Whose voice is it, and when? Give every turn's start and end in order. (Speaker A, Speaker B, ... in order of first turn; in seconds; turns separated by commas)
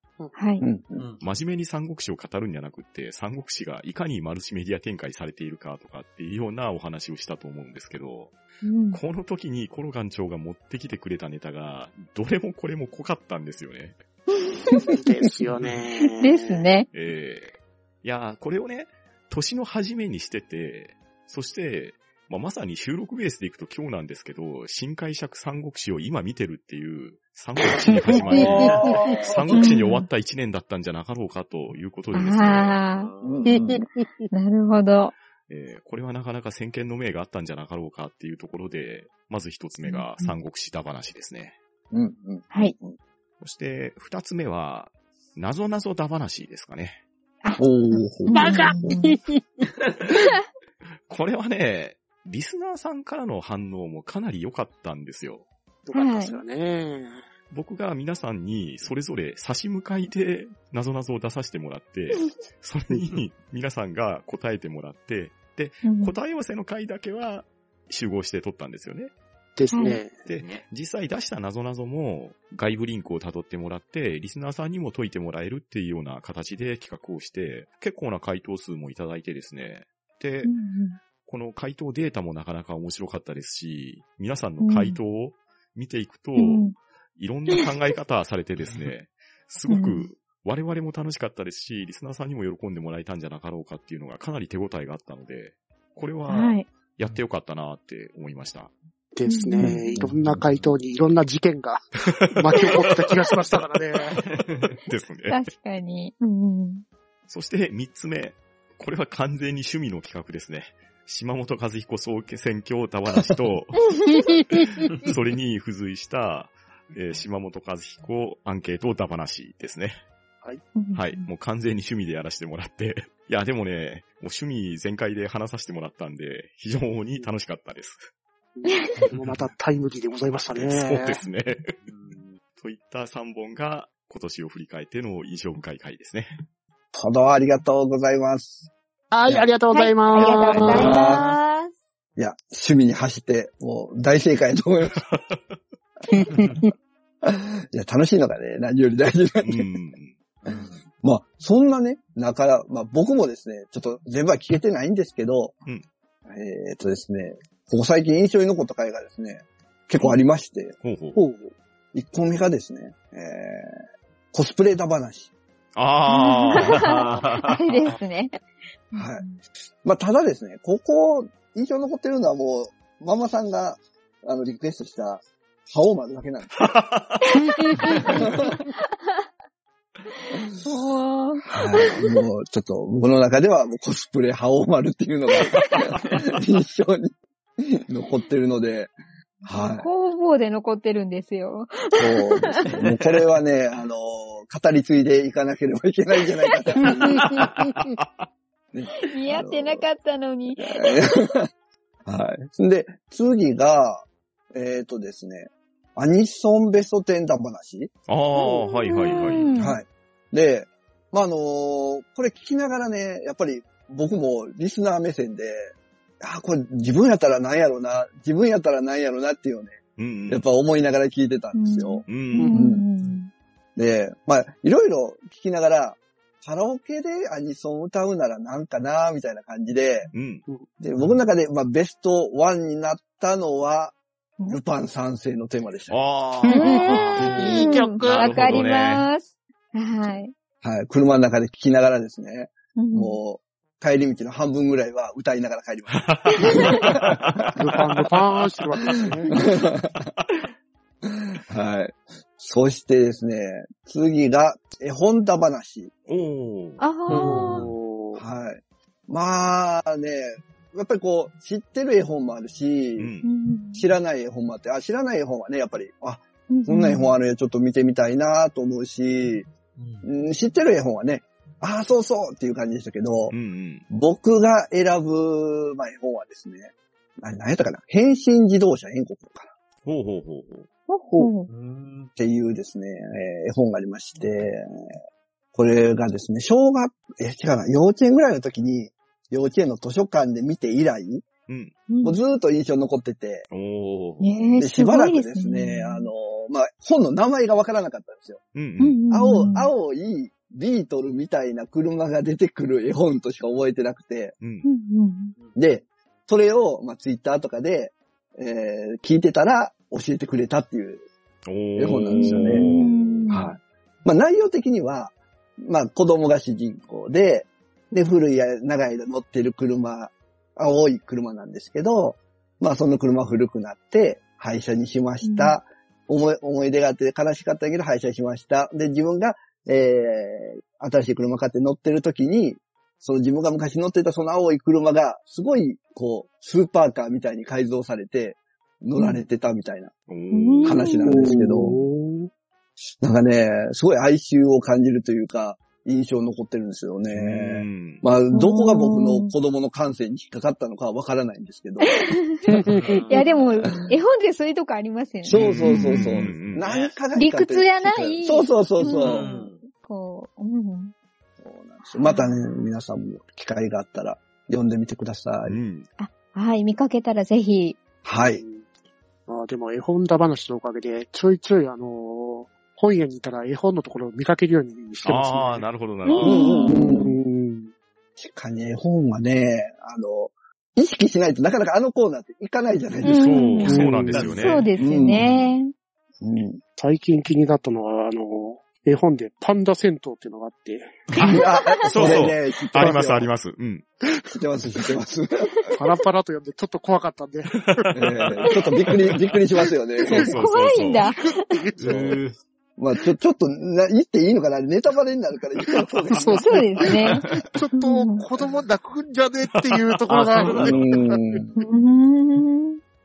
Speaker A: 0.3-0.6, Speaker B: 0.6-1.1, Speaker C: 1.2-8.3, Speaker A: 8.6-9.0, Speaker C: 8.9-14.0, Speaker D: 14.9-16.6, Speaker A: 16.2-16.9, Speaker C: 16.9-32.8, Speaker D: 27.8-28.9, Speaker B: 28.4-28.9, Speaker A: 29.5-30.1, Speaker A: 32.1-33.1, Speaker E: 32.9-33.5, Speaker B: 33.2-33.8, Speaker D: 33.5-34.2, Speaker A: 34.3-35.1, Speaker C: 35.5-41.5, Speaker A: 39.8-40.3, Speaker B: 41.9-43.0, Speaker C: 43.4-47.0, Speaker A: 47.4-49.1, Speaker B: 47.6-49.1, Speaker D: 48.3-49.7, Speaker C: 51.1-55.5, Speaker D: 55.8-57.2, Speaker A: 55.9-56.4, Speaker C: 57.5-69.1, Speaker A: 65.8-66.1, Speaker D: 69.5-70.1, Speaker A: 69.7-70.0, Speaker C: 70.2-80.5, Speaker E: 70.3-70.6, Speaker A: 80.4-81.0, Speaker C: 81.2-98.7, Speaker A: 84.6-85.0, Speaker A: 86.4-86.7, Speaker A: 89.7-90.1, Speaker A: 96.2-96.7, Speaker D: 99.1-104.2, Speaker A: 99.3-99.7, Speaker B: 99.9-100.4, Speaker C: 102.0-103.2, Speaker C: 104.1-105.4, Speaker E: 104.3-104.8, Speaker A: 105.3-106.8, Speaker C: 107.3-120.0, Speaker A: 120.7-121.2, Speaker C: 120.9-128.0, Speaker D: 128.6-131.2, Speaker C: 130.5-131.7, Speaker E: 131.8-132.4, Speaker C: 132.6-136.4, Speaker B: 136.9-138.7, Speaker D: 139.1-141.2, Speaker A: 139.7-141.7, Speaker E: 140.5-141.1, Speaker B: 140.7-141.3, Speaker B: 142.2-145.0, Speaker C: 145.0-145.4, Speaker B: 147.2-149.7, Speaker C: 149.4-150.2, Speaker E: 150.4-150.7, Speaker B: 151.0-155.5, Speaker B: 156.2-163.7, Speaker C: 160.8-161.2, Speaker B: 164.3-165.3, Speaker C: 165.7-167.5, Speaker A: 166.1-168.4, Speaker E: 166.7-167.6, Speaker A: 168.9-169.4, Speaker B: 168.9-169.2, Speaker B: 169.8-176.5, Speaker C: 176.6-178.0, Speaker A: 177.4-178.7, Speaker B: 178.1-178.5, Speaker A: 180.6-182.2, Speaker B: 181.5-188.9, Speaker A: 185.5-185.8, Speaker B: 189.4-189.9, Speaker A: 189.5-192.7, Speaker B: 192.0-197.3, Speaker A: 196.8-197.5, Speaker C: 197.4-198.3, Speaker B: 198.7-199.8, Speaker A: 199.0-201.0, Speaker B: 200.6-201.5, Speaker B: 202.1-207.9, Speaker C: 208.1-209.5, Speaker A: 208.3-209.8, Speaker B: 209.5-222.8, Speaker C: 219.9-220.4, Speaker A: 221.5-223.3, Speaker C: 222.1-222.7, Speaker B: 223.8-230.1, Speaker C: 230.1-230.4, Speaker B: 230.8-233.9, Speaker B: 234.4-236.0, Speaker C: 235.9-239.0, Speaker D: 236.4-238.2, Speaker A: 236.5-240.3, Speaker E: 238.2-238.6, Speaker B: 240.6-247.5, Speaker A: 242.7-243.2, Speaker C: 245.9-249.1, Speaker A: 246.4-246.7, Speaker D: 247.6-249.3, Speaker B: 249.3-250.1, Speaker B: 251.1-255.9, Speaker C: 256.1-256.8, Speaker A: 256.8-257.7, Speaker D: 257.1-258.2, Speaker B: 258.1-263.2, Speaker C: 263.0-263.3, Speaker A: 263.2-263.9, Speaker B: 263.7-269.5, Speaker A: 266.5-267.1, Speaker E: 269.8-270.1, Speaker B: 270.0-273.3, Speaker C: 273.3-273.8, Speaker B: 273.9-279.5, Speaker C: 279.8-280.7, Speaker A: 280.9-281.5, Speaker E: 281.5-282.1, Speaker B: 282.1-284.9, Speaker B: 285.5-291.2, Speaker C: 291.5-291.7, Speaker A: 291.9-292.1, Speaker B: 292.0-293.4, Speaker C: 293.5-294.3, Speaker A: 294.2-296.1, Speaker B: 294.6-298.4, Speaker C: 298.5-299.0, Speaker A: 298.8-299.7, Speaker B: 299.1-304.3, Speaker C: 304.4-304.6, Speaker A: 304.6-305.3, Speaker B: 305.5-311.1, Speaker C: 311.4-313.0, Speaker B: 311.8-312.7, Speaker A: 312.6-313.5, Speaker B: 313.3-339.9, Speaker A: 325.2-325.6, Speaker C: 340.1-340.9, Speaker A: 340.3-341.2, Speaker B: 340.6-341.7, Speaker D: 341.0-342.3, Speaker B: 343.0-352.1, Speaker C: 347.1-348.0, Speaker A: 348.3-349.3, Speaker A: 351.9-355.7, Speaker D: 352.5-353.0, Speaker E: 352.7-353.4, Speaker B: 355.2-359.3, Speaker C: 355.3-356.6, Speaker E: 356.0-356.9, Speaker A: 357.1-360.9, Speaker E: 359.0-359.6, Speaker B: 361.4-365.6, Speaker A: 361.9-362.6, Speaker C: 365.4-365.9, Speaker A: 366.0-367.8, Speaker B: 368.0-368.4, Speaker D: 368.4-368.7, Speaker D: 369.3-375.7, Speaker C: 375.0-376.6, Speaker A: 376.1-377.1, Speaker D: 376.2-377.7, Speaker B: 376.2-377.1, Speaker B: 378.2-383.5, Speaker A: 383.0-385.7, Speaker C: 383.0-384.6, Speaker D: 383.6-384.5, Speaker E: 384.1-384.6, Speaker B: 384.8-385.2, Speaker B: 386.2-386.6, Speaker D: 386.8-391.3, Speaker A: 391.1-391.7, Speaker B: 391.2-393.3, Speaker C: 391.8-393.9, Speaker D: 392.8-393.0, Speaker B: 394.3-395.7, Speaker D: 395.7-397.9, Speaker C: 397.6-398.4, Speaker B: 397.9-400.3, Speaker C: 400.1-401.0, Speaker A: 400.2-401.6, Speaker D: 401.0-401.9, Speaker E: 401.8-402.4, Speaker B: 401.8-402.2, Speaker B: 402.8-406.9, Speaker D: 406.1-411.4, Speaker A: 406.4-407.2, Speaker A: 407.8-408.2, Speaker C: 409.5-411.0, Speaker E: 410.1-411.0, Speaker B: 410.6-411.6, Speaker A: 411.6-412.8